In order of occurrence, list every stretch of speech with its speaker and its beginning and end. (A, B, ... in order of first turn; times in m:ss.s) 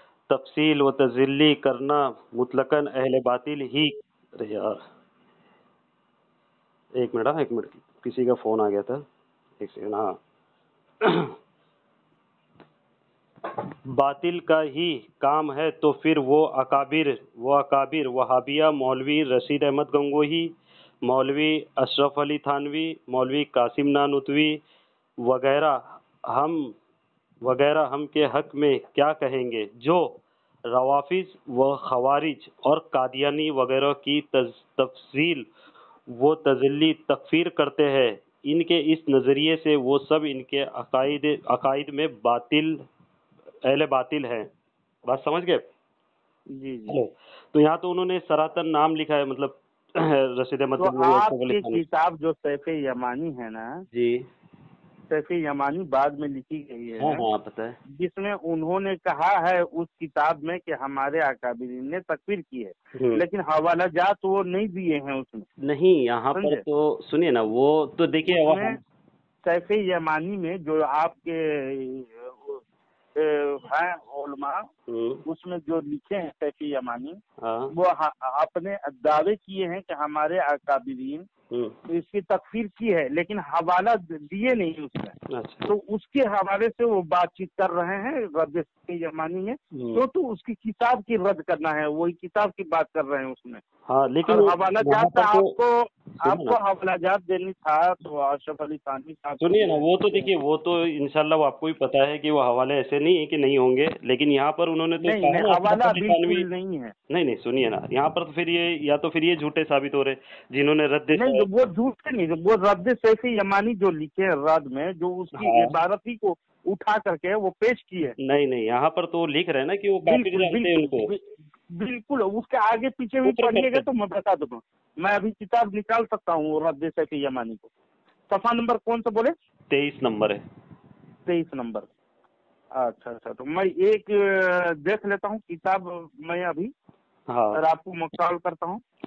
0:00.3-0:04.8 A
0:07.0-0:09.0 A
0:09.6-0:10.2 A
0:11.0-0:11.3 A
0:13.9-0:20.5 A
0:21.0-0:24.6 A
0:25.2-0:26.7 A
0:27.4-0:35.5 A
0:36.1-0:42.8 A
0:43.7-0:44.5 A
0:45.1-0:45.6 A
0:46.6-0:47.0 B
0:46.9-0:51.8 A
0:50.8-0:53.8 B
0:53.9-0:54.2 A
0:55.1-0:57.2 B
0:57.0-0:57.8 A
0:58.0-1:05.5 B
1:03.0-1:03.2 A
1:05.6-1:08.8 A
1:06.4-1:06.6 B
1:08.3-1:08.8 B
1:09.4-1:12.6 B
1:13.2-1:14.6 B
1:14.9-1:15.2 A
1:15.3-1:17.2 B
1:17.4-1:17.7 A
1:17.7-1:21.3 B
1:21.5-1:21.8 A
1:21.9-1:25.2 B
1:25.3-1:25.7 A
1:25.7-1:33.6 B
1:29.7-1:30.0 A
1:33.9-1:35.6 A
1:34.3-1:40.3 B
1:36.2-1:36.6 A
1:39.4-1:46.4 A
1:45.0-1:46.9 B
1:47.1-1:51.5 A
1:51.2-1:58.2 B
1:55.4-1:55.7 A
1:58.2-2:01.1 A
2:00.1-2:07.7 B
2:03.2-2:03.9 A
2:08.3-2:09.3 B
2:09.7-2:10.4 A
2:11.3-2:11.9 B
2:12.8-2:16.7 B
2:17.3-2:17.6 A
2:17.6-2:18.8 B